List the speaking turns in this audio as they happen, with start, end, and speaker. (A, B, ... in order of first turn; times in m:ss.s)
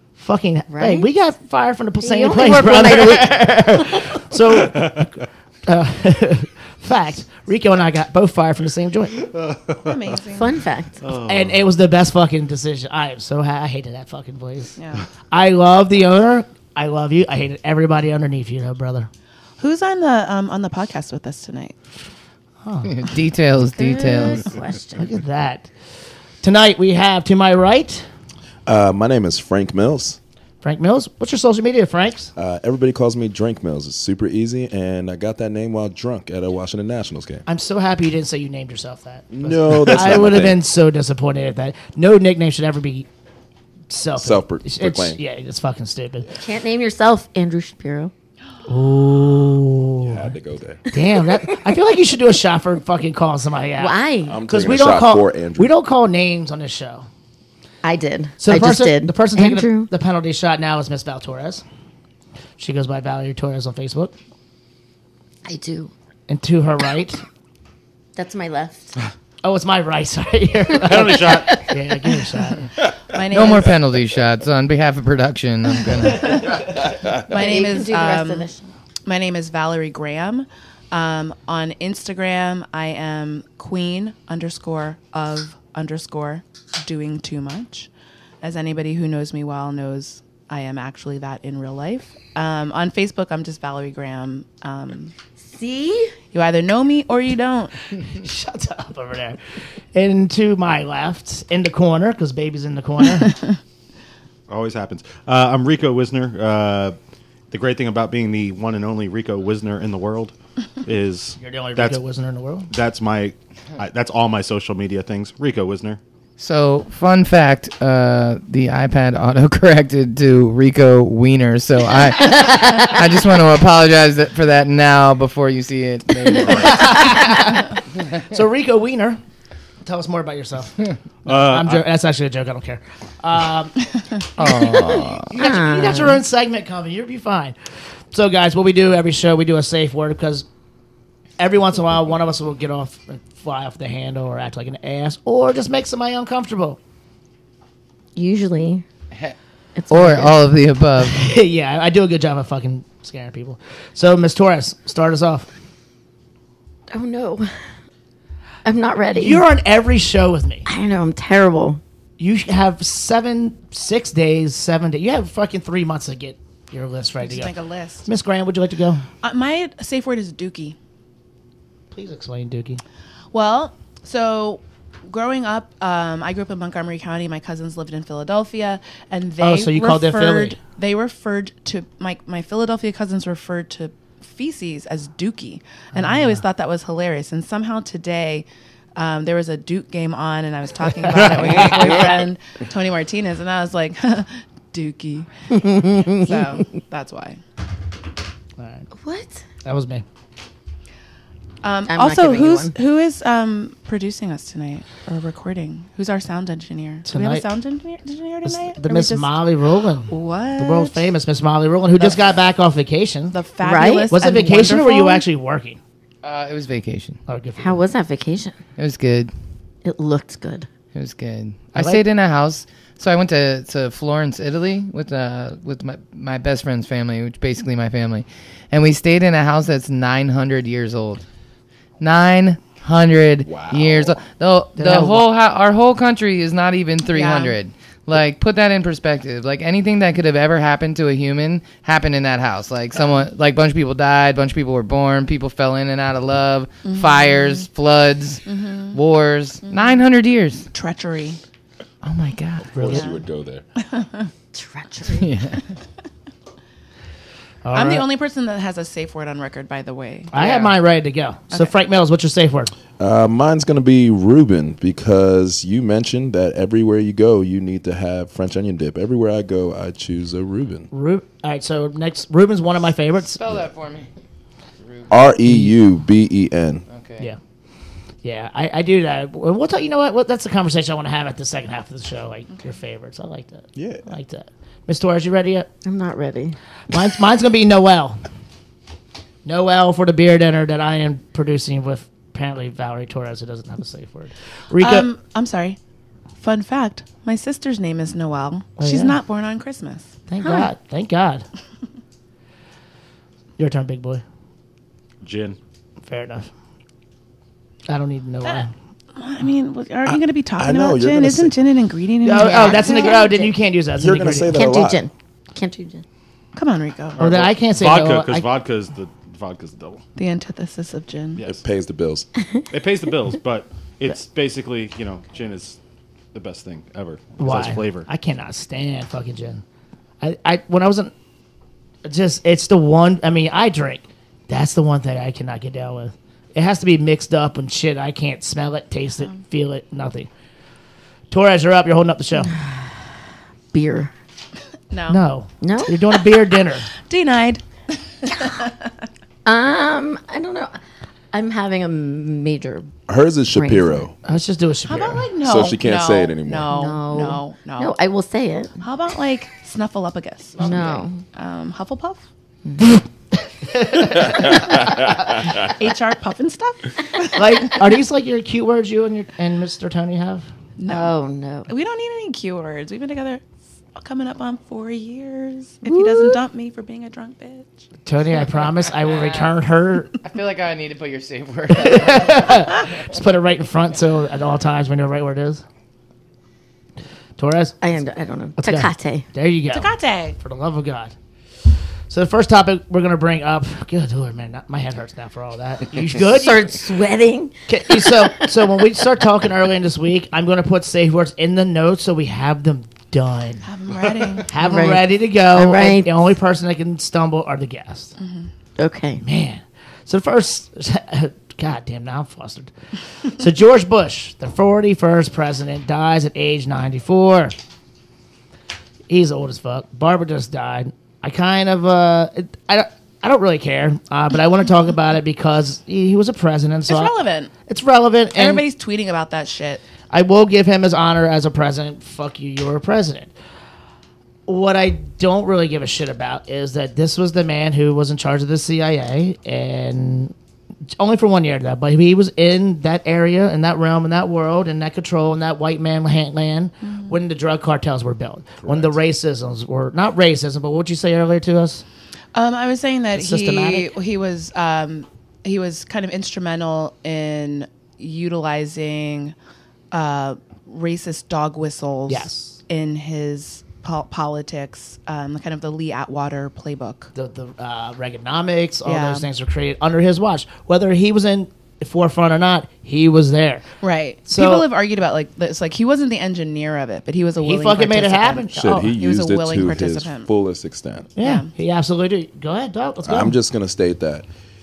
0:00.2-0:09.3 A
0:00.7-0:01.1 B
0:02.0-0:03.4 B
0:04.6-0:05.0 C
0:09.3-0:10.1 C
0:09.8-0:10.6 D
0:10.4-0:11.0 B
0:11.0-0:11.6 C
0:11.2-0:14.7 A
0:14.8-0:15.0 D
0:15.3-0:19.1 A
0:19.6-0:21.8 D
0:22.6-0:22.9 A
0:22.8-0:24.5 E
0:23.7-0:25.1 B
0:25.0-0:25.7 A
0:26.4-0:28.0 A
0:28.6-0:30.2 F
0:30.6-0:32.3 A
0:32.4-0:37.4 F
0:37.4-0:43.1 A
0:39.3-0:40.6 F
0:43.9-0:46.3 A
0:44.2-0:45.2 F
0:46.4-0:48.1 B
0:48.6-0:50.3 A
0:50.0-0:50.8 F
0:50.9-0:57.0 A
0:53.8-0:54.4 B
0:54.2-0:55.7 F
0:57.8-0:59.9 B
0:58.4-1:01.6 A
1:02.6-1:04.1 A
1:05.4-1:05.9 B
1:06.3-1:07.2 A
1:08.2-1:09.0 B
1:09.4-1:12.7 A
1:10.8-1:11.7 C
1:13.1-1:13.7 D
1:13.3-1:16.5 E
1:17.2-1:18.5 D
1:17.3-1:18.7 B
1:19.0-1:27.9 D
1:28.4-1:35.1 D
1:35.4-1:36.1 B
1:36.3-1:37.9 D
1:38.1-1:39.4 A
1:39.9-1:43.4 A
1:44.5-1:47.0 C
1:47.5-1:52.0 C
1:51.4-1:52.7 A
1:52.7-1:56.0 C
1:56.4-2:07.1 E
2:06.5-2:07.7 A
2:08.2-2:09.2 A
2:09.8-2:13.8 A
2:11.2-2:11.8 C
2:14.4-2:15.3 E
2:14.4-2:17.5 A
2:14.5-2:16.2 B
2:18.1-2:20.4 A
2:21.4-2:26.8 A
2:28.2-2:28.8 B
2:29.8-2:30.4 B
2:29.9-2:31.2 E
2:31.0-2:35.5 A
2:36.9-2:37.5 B
2:38.6-2:39.4 B
2:39.1-2:40.6 A
2:40.6-2:41.8 B
2:42.2-2:47.5 A
2:47.2-2:48.1 D
2:48.0-2:49.1 A
2:49.2-2:50.8 D
2:51.9-2:52.8 A
2:53.3-3:17.4 D
2:59.4-3:00.6 A
3:05.9-3:06.4 A
3:11.0-3:12.3 A
3:15.6-3:16.2 B
3:18.6-3:18.9 A
3:18.9-3:19.4 B
3:19.6-3:20.0 A
3:21.6-3:29.4 D
3:21.9-3:22.7 B
3:27.0-3:27.5 A
3:28.4-3:33.4 A
3:30.1-3:31.1 D
3:33.3-3:35.2 D
3:33.6-3:34.1 B
3:34.1-3:35.8 A
3:36.2-3:37.2 E
3:37.3-3:37.8 A
3:37.6-3:38.6 B
3:38.8-3:39.3 E
3:39.8-3:40.7 B
3:40.9-3:51.2 E
3:41.7-3:42.0 A
3:52.0-4:10.6 E
3:53.4-3:54.3 F
3:54.8-3:55.2 A
3:57.1-3:57.6 D
4:06.8-4:07.7 D
4:08.4-4:09.0 D
4:09.7-4:10.0 D
4:10.7-4:11.4 D
4:12.0-4:12.8 E
4:12.7-4:13.0 A
4:12.8-4:13.6 F
4:13.8-4:14.3 D
4:14.5-4:15.3 B
4:15.2-4:15.6 E
4:17.6-4:18.0 A
4:17.7-4:20.7 D
4:20.3-4:22.7 A
4:23.0-4:30.9 F
4:30.9-4:33.6 A
4:33.3-4:34.1 E
4:34.8-4:35.2 E
4:35.1-4:36.8 F
4:36.9-4:37.3 E
4:38.2-4:45.7 A
4:43.8-4:44.0 F
4:45.8-4:46.6 B
4:46.9-4:48.2 A
4:49.4-4:55.1 A
4:54.8-4:55.8 D
4:56.4-5:00.1 D
4:58.8-4:59.2 A
5:00.3-5:01.4 A
5:00.4-5:00.7 B
5:03.6-5:04.2 A
5:05.2-5:05.6 C
5:06.0-5:06.5 A
5:07.9-5:08.7 A
5:08.4-5:13.2 D
5:10.0-5:11.5 F
5:12.2-5:14.6 A
5:12.3-5:13.5 B
5:13.9-5:15.0 F
5:14.5-5:16.0 B
5:16.5-5:17.2 D
5:17.2-5:20.0 C
5:17.2-5:18.5 A
5:20.2-5:21.4 D
5:21.4-5:22.3 F
5:22.7-5:25.8 C
5:26.3-5:28.1 C
5:27.4-5:29.6 A
5:30.2-5:31.1 A
5:32.0-5:40.3 A
5:41.3-5:42.5 A
5:43.7-5:44.1 B
5:44.9-5:45.2 D
5:45.1-5:46.9 A
5:45.6-5:46.0 B
5:47.0-5:47.6 D
5:48.2-5:48.9 D
5:49.4-5:50.8 B
5:51.3-5:52.9 B
5:53.1-5:54.2 F
5:53.5-5:54.0 B
5:54.2-5:55.3 A
5:54.9-5:57.9 D
5:55.4-5:56.7 F
5:56.7-5:58.7 B
5:58.8-6:00.7 D
6:00.6-6:01.2 B
6:01.3-6:02.2 D
6:03.7-6:04.5 A
6:04.0-6:05.7 F
6:04.4-6:07.8 D
6:07.3-6:10.4 A
6:10.8-6:11.1 D
6:10.9-6:11.7 B
6:11.7-6:13.4 D
6:14.0-6:17.9 D
6:18.0-6:20.1 A
6:19.0-6:19.5 E
6:20.2-6:22.7 E
6:21.7-6:25.6 A
6:27.4-6:27.8 A
6:27.8-6:29.2 B
6:28.6-6:31.1 A
6:29.7-6:30.4 D
6:32.1-6:36.7 A
6:36.3-6:38.5 B
6:37.7-6:48.1 A
6:43.6-6:44.5 D
6:44.6-6:46.1 B
6:48.2-6:48.5 D
6:48.8-6:49.2 B
6:49.2-6:52.7 A
6:53.2-6:57.5 A
6:59.1-7:07.1 A
7:06.9-7:07.5 D
7:07.7-7:08.6 A
7:08.3-7:09.8 D
7:10.1-7:13.3 A
7:14.5-7:20.3 A
7:21.0-7:31.8 A
7:26.8-7:27.2 D
7:28.6-7:29.0 F
7:32.3-7:39.3 D
7:33.1-7:33.9 A
7:39.9-7:47.1 D
7:42.1-7:42.6 A
7:47.1-7:53.6 A
7:48.8-7:49.2 D
7:53.8-8:00.3 D
7:54.3-7:54.7 A
7:57.4-7:58.9 A
7:58.6-8:01.1 F
8:01.2-8:03.4 A
8:01.2-8:01.5 D
8:03.0-8:04.3 F